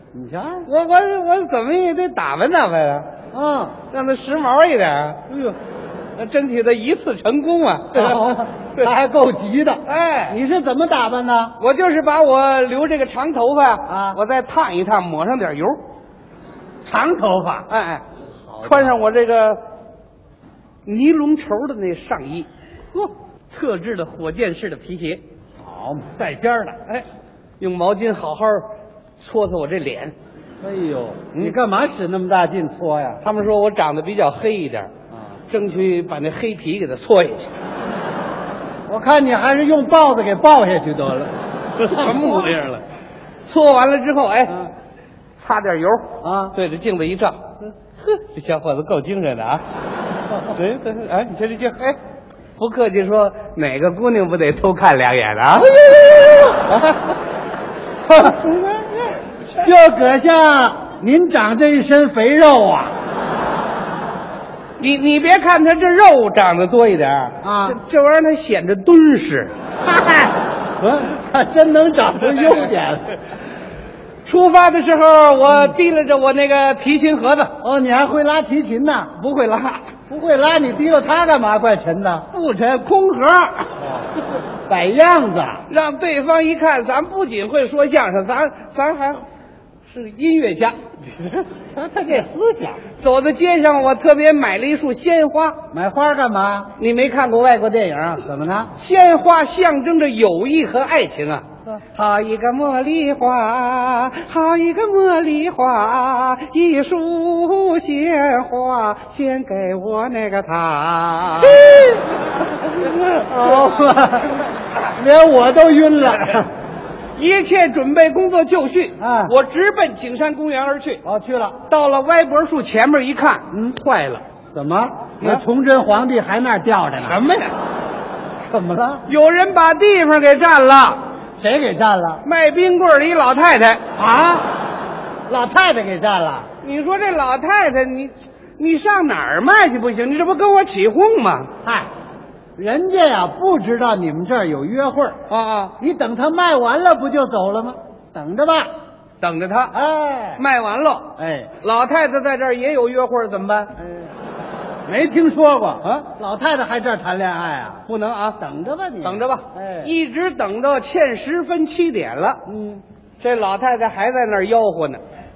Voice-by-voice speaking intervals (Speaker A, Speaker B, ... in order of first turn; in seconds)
Speaker A: 0.1-0.7, 3.3-3.8, 5.3-5.5, 7.9-11.5, 13.9-14.2, 16.8-17.7, 18.5-18.9, 25.6-26.8, 30.6-33.2, 35.1-35.4, 38.9-41.3, 41.9-42.5, 46.2-46.5, 55.8-56.3, 59.6-62.9, 67.4-67.8, 69.8-70.3, 71.1-73.1, 77.6-79.2, 80.1-82.2, 84.7-85.6, 91.6-92.8, 95.7-96.7, 98.2-98.7, 113.2-114.4, 114.9-116.5, 119.0-119.3, 121.0-121.6, 124.5-127.2, 128.4-129.0, 131.4-132.2, 134.0-134.5, 135.3-136.5, 141.6-141.9, 142.6-145.2, 145.8-148.7, 149.7-150.4, 151.2-151.5, 154.8-157.8, 158.4-159.9, 162.5-162.8
Speaker B: 0.7-3.1, 3.9-5.3, 6.2-8.9, 9.8-10.4, 11.6-15.8, 17.7-18.0, 18.6-19.6, 20.9-22.5, 23.5-25.2, 27.6-30.1, 33.2-34.9, 35.5-37.5, 41.8-42.8, 43.5-44.7, 45.4-49.6, 50.5-52.0, 52.6-55.8, 56.5-57.1, 58.1-59.7, 64.8-69.5, 70.8-71.1, 74.2-77.5, 79.2-79.9, 82.3-83.8, 85.7-89.2, 89.9-91.4, 92.9-95.6, 96.8-112.0, 112.6-113.9, 117.2-121.0, 121.7-124.2, 127.0-127.5, 129.1-131.0, 132.2-133.8, 136.6-141.5, 145.3-145.8, 149.2-149.8, 150.4-153.8, 157.9-158.4, 159.0-162.4, 163.2-165.0